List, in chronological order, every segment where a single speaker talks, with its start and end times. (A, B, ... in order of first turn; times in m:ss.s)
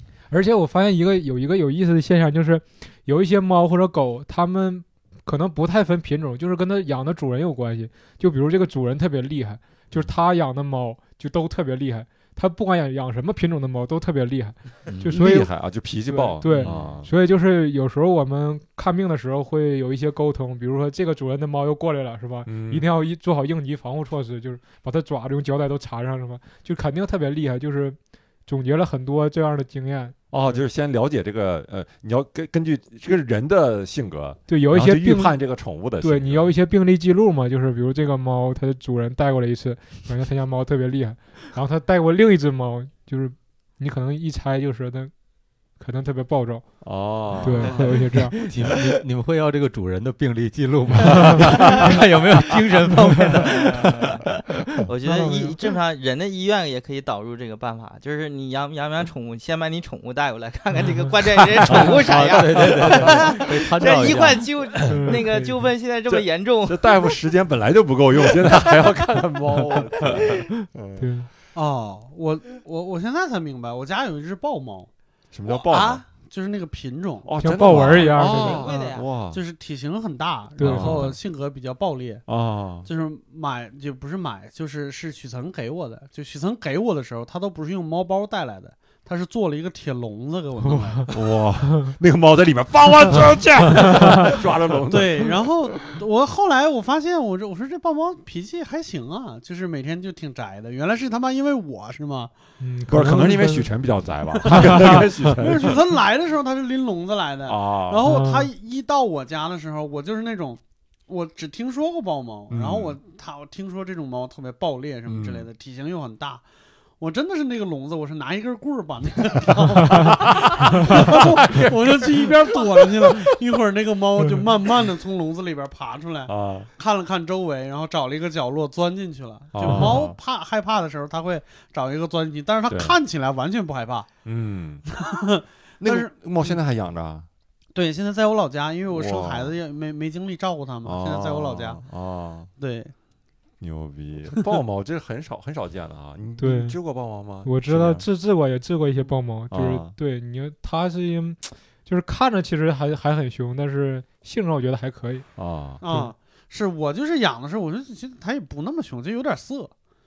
0:00.3-0:30.6 A
0:14.9-0:15.2 B
0:15.0-0:17.1 C
0:16.4-0:16.9 B
0:22.4-0:22.8 C
0:30.3-0:36.5 C
0:34.5-0:35.4 A
0:36.0-0:45.1 A
0:45.8-0:46.7 A
0:46.8-0:47.8 C
0:47.4-0:48.4 A
0:47.6-0:54.8 B
0:51.1-0:52.0 C
0:54.9-1:07.1 D
0:55.0-0:55.5 A
1:01.6-1:04.5 B
1:04.9-1:05.6 A
1:06.1-1:11.1 C
1:11.0-1:11.3 A
1:11.5-1:14.9 E
1:15.3-1:16.0 C
1:15.5-1:16.0 D
1:16.2-1:17.4 E
1:17.2-1:19.4 C
1:17.4-1:18.6 A
1:18.0-1:19.0 D
1:18.6-1:22.2 E
1:20.6-1:20.9 A
1:20.6-1:21.2 C
1:22.3-1:22.9 C
1:22.8-1:31.1 E
1:31.1-1:35.7 C
1:34.9-1:42.3 E
1:42.6-1:43.7 A
1:42.9-1:45.8 C
1:44.4-1:56.4 E
1:44.5-1:45.0 A
1:47.4-1:48.1 C
1:48.0-1:48.5 A
1:52.5-1:53.0 C
1:55.0-1:55.5 C
1:57.0-2:14.1 E
1:59.9-2:03.2 C
2:06.3-2:06.7 C
2:09.5-2:10.2 C
2:12.7-2:13.0 C
2:14.2-2:14.9 C
2:14.9-2:16.6 E
2:15.8-2:17.3 C
2:17.7-2:21.8 E
2:18.9-2:19.6 C
2:20.8-2:22.5 C
2:22.6-2:22.9 E
2:23.6-2:28.0 C
2:26.4-2:26.8 A
2:27.4-2:35.2 A
2:29.5-2:29.9 C
2:35.4-2:35.8 C
2:35.8-2:39.7 E
2:35.8-2:36.1 A